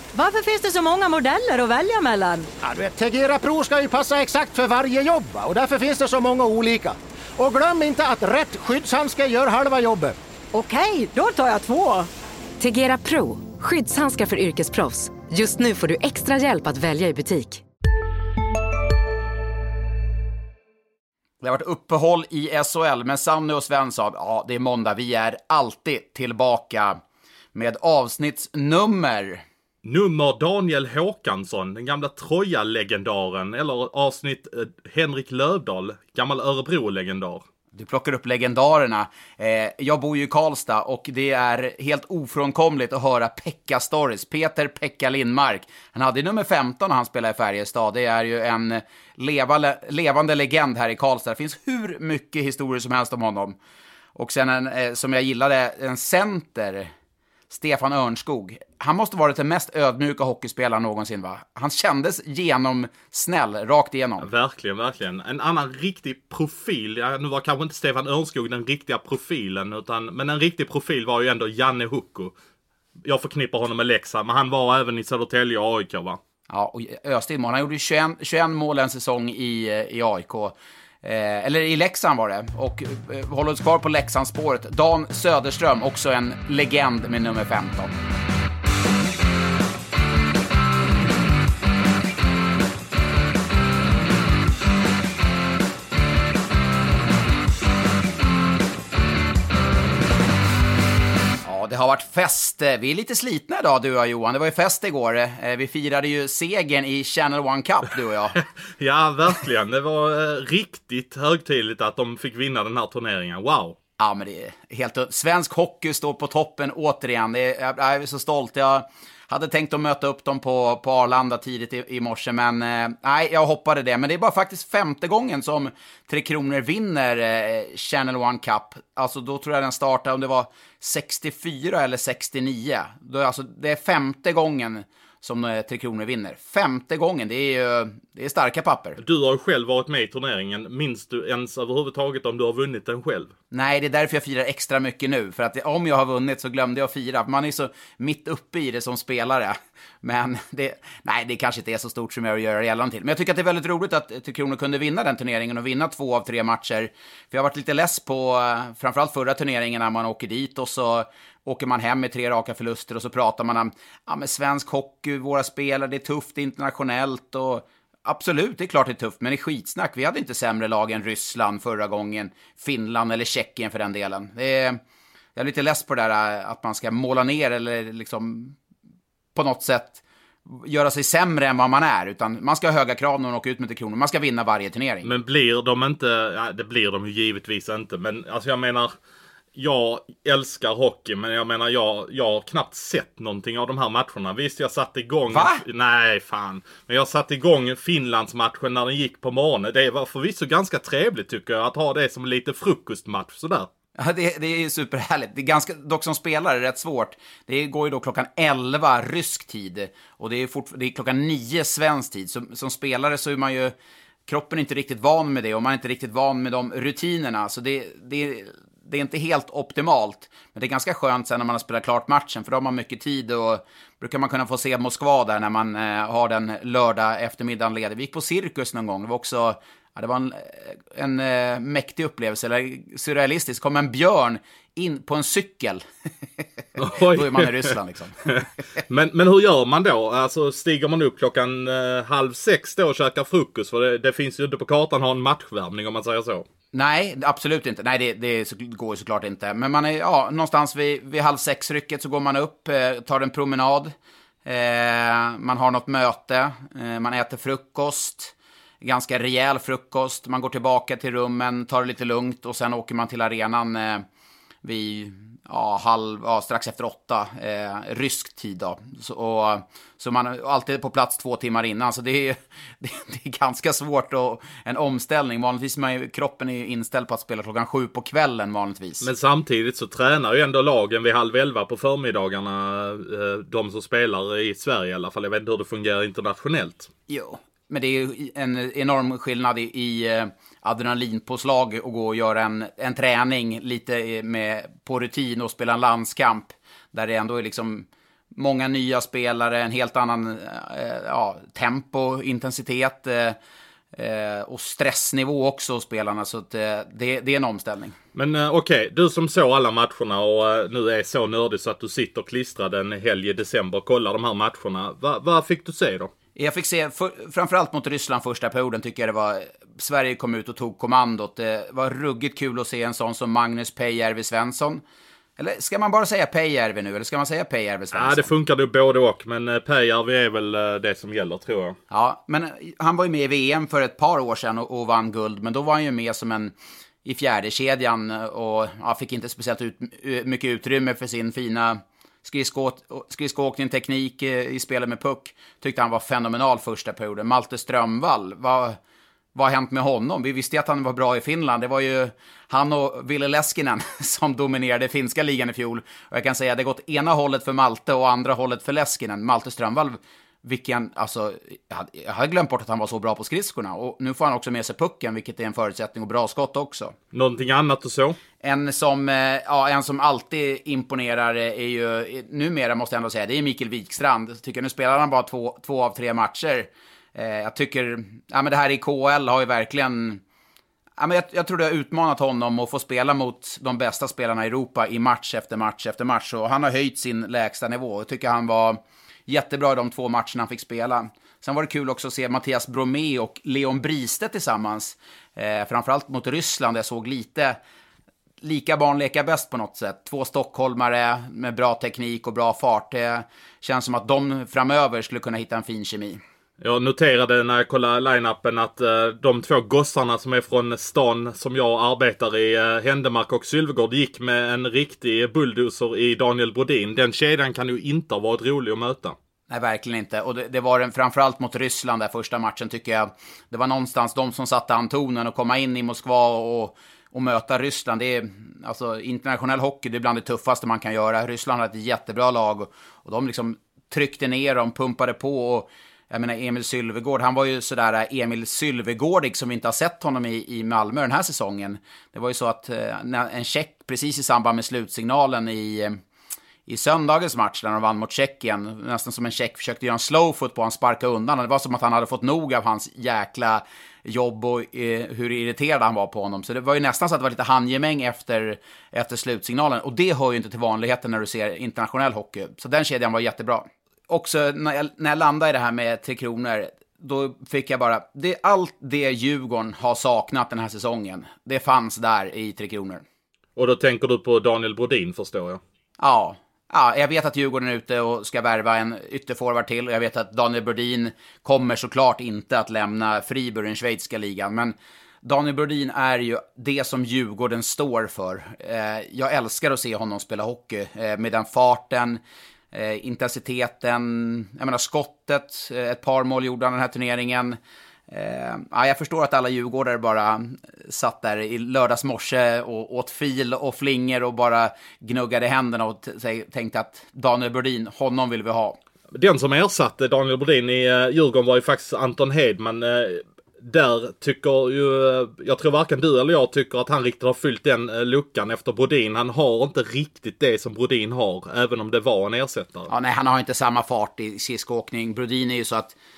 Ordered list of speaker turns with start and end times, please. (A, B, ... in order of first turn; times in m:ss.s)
0:00.1-0:02.5 A
0:02.6-0:10.2 B
0:10.5-0:12.1 A
0:12.6-0:17.6 C
0:21.4-0:27.0 D
0:27.5-0:29.4 D
0:29.8-0:37.4 E
0:37.7-0:53.6 D
0:54.1-0:56.9 D
0:57.5-1:04.3 D
1:04.2-1:12.3 E
1:13.0-1:16.2 E
1:16.5-1:27.9 D
1:41.4-1:48.4 D
1:48.8-1:53.8 E
1:54.0-2:19.0 D
2:19.0-2:23.3 E
2:23.5-2:54.8 D
2:55.3-2:58.6 D
2:59.3-3:05.1 D
3:05.0-3:08.9 E
3:09.5-3:23.7 E
3:15.3-3:15.6 D
3:24.0-3:33.7 D
3:34.3-3:55.8 D
3:56.4-3:58.2 D
3:56.8-3:57.7 E
3:58.3-4:06.4 E
4:06.7-4:13.9 D
4:14.4-4:24.0 D
4:24.6-4:39.1 D
4:39.0-4:46.9 E
4:47.1-5:03.4 D
5:03.9-5:07.9 D
5:08.1-5:16.1 E
5:16.4-5:24.8 D
5:25.4-5:28.3 D
5:27.9-5:31.8 E
5:31.9-5:48.8 D
5:49.3-6:06.9 D
6:07.1-6:08.2 E
6:08.4-6:20.2 D
6:21.0-6:37.6 D
6:38.4-6:46.2 D
6:46.6-6:59.1 E
6:59.5-7:26.0 D
7:26.7-7:53.0 D
7:53.6-7:55.6 E
7:56.0-8:12.2 D
8:12.7-8:17.6 D
8:18.1-8:28.8 D
8:29.1-8:42.9 E
8:42.9-8:46.0 D